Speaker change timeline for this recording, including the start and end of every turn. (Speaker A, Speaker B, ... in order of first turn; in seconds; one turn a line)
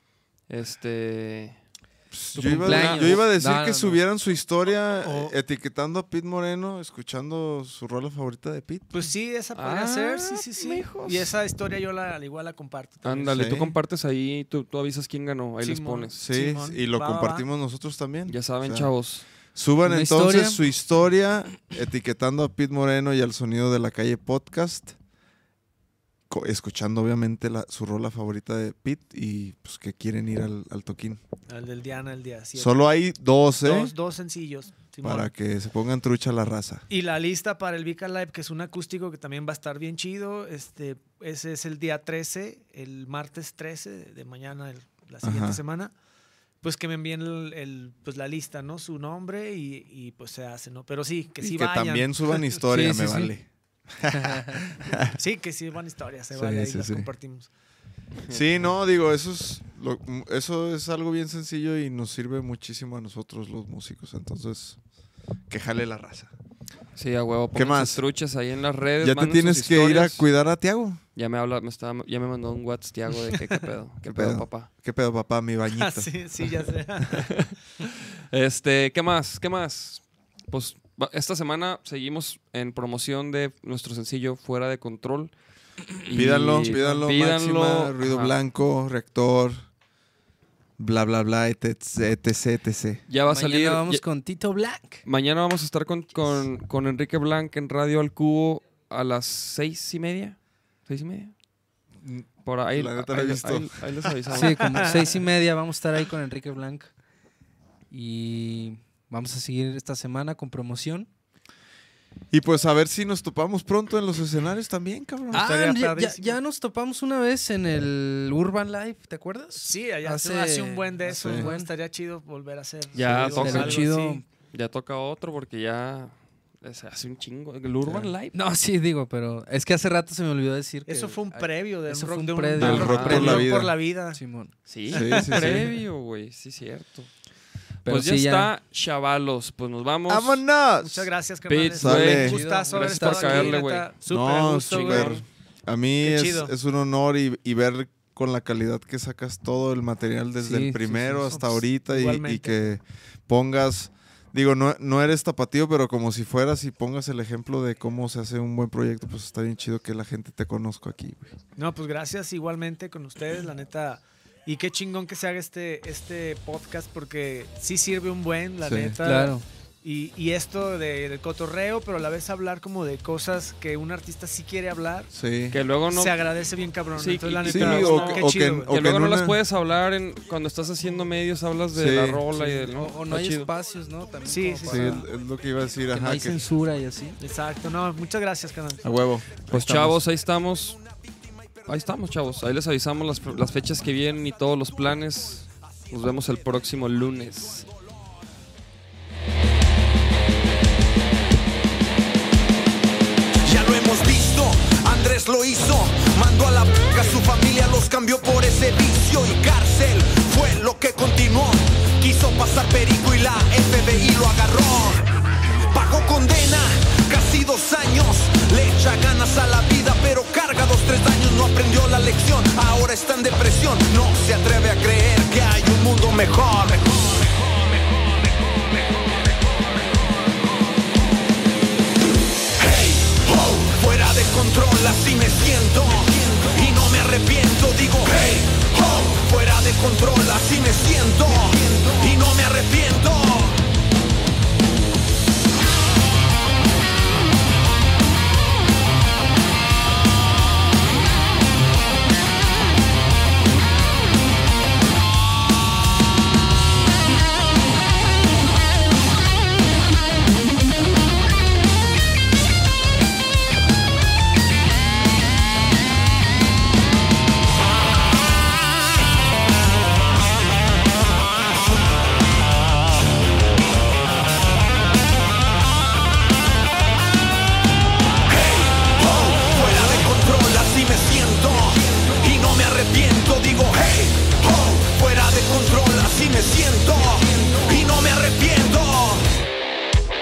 Speaker A: 0.5-1.6
Speaker B: 2.1-9.0
Speaker C: 2.3-4.0
Speaker A: 2.5-3.2
Speaker D: 5.0-5.3
Speaker D: 8.9-13.4
Speaker A: 9.5-11.3
Speaker A: 13.0-16.2
Speaker B: 13.3-13.7
Speaker D: 15.6-17.4
Speaker B: 16.1-18.9
Speaker A: 18.3-19.2
Speaker B: 19.5-24.9
Speaker C: 19.8-20.6
Speaker B: 26.3-31.2
Speaker D: 31.5-33.0
Speaker B: 32.6-33.9
Speaker D: 33.6-35.3
Speaker B: 35.0-36.8
Speaker D: 36.9-45.9
Speaker B: 45.2-45.6
Speaker D: 46.6-52.6
Speaker B: 51.4-53.5
Speaker C: 52.7-53.3
Speaker B: 54.0-55.1
Speaker C: 54.1-54.7
Speaker D: 55.1-57.5
Speaker B: 56.3-57.1
Speaker B: 58.3-64.8
Speaker B: 65.5-66.3
Speaker A: 67.0-70.3
Speaker B: 67.5-68.0
Speaker B: 69.0-71.0
Speaker A: 71.2-74.7
Speaker B: 74.1-76.1
Speaker D: 75.8-77.4
Speaker A: 78.3-85.3
Speaker A: 86.0-88.3
Speaker B: 86.1-89.6
Speaker C: 86.6-87.0
Speaker B: 90.8-93.0
Speaker A: 93.1-94.0
Speaker C: 93.3-95.0
Speaker A: 95.0-101.3
Speaker B: 102.0-103.8
Speaker A: 102.4-105.1
Speaker C: 104.3-106.9
Speaker C: 107.9-111.1
Speaker B: 112.3-115.5
Speaker C: 115.3-121.7
Speaker D: 115.3-116.4
Speaker D: 119.5-124.2
Speaker B: 121.2-121.5
Speaker A: 122.9-123.9
Speaker B: 123.0-123.6
Speaker C: 123.3-124.2
Speaker A: 124.5-128.3
Speaker B: 127.8-128.1
Speaker C: 128.3-134.5
Speaker D: 130.8-134.2
Speaker B: 132.6-133.7
Speaker A: 132.6-133.4
Speaker A: 134.7-137.1
Speaker D: 134.9-135.7
Speaker B: 134.9-135.7
Speaker C: 137.8-138.5
Speaker A: 137.8-140.4
Speaker B: 140.1-141.1
Speaker D: 140.8-145.2
Speaker A: 141.5-143.9
Speaker B: 141.8-142.4
Speaker C: 142.2-143.6
Speaker B: 144.1-161.3
Speaker A: 144.7-145.2
Speaker D: 146.0-146.5
Speaker C: 150.4-151.3
Speaker D: 151.3-152.8
Speaker D: 161.6-175.1
Speaker B: 168.6-169.0
Speaker C: 169.0-169.4
Speaker B: 175.1-175.6
Speaker A: 175.5-176.2
Speaker D: 175.9-178.7
Speaker A: 176.9-183.5
Speaker B: 177.5-179.4
Speaker B: 181.7-182.2
Speaker C: 182.3-185.0
Speaker D: 184.3-185.0
Speaker B: 184.7-186.4
Speaker C: 185.9-187.2
Speaker D: 187.2-188.9
Speaker B: 188.8-189.2
Speaker C: 189.5-190.0
Speaker A: 189.5-190.8
Speaker A: 191.6-197.7
Speaker E: 203.4-229.8
Speaker E: 232.6-243.6
Speaker E: 278.3-289.3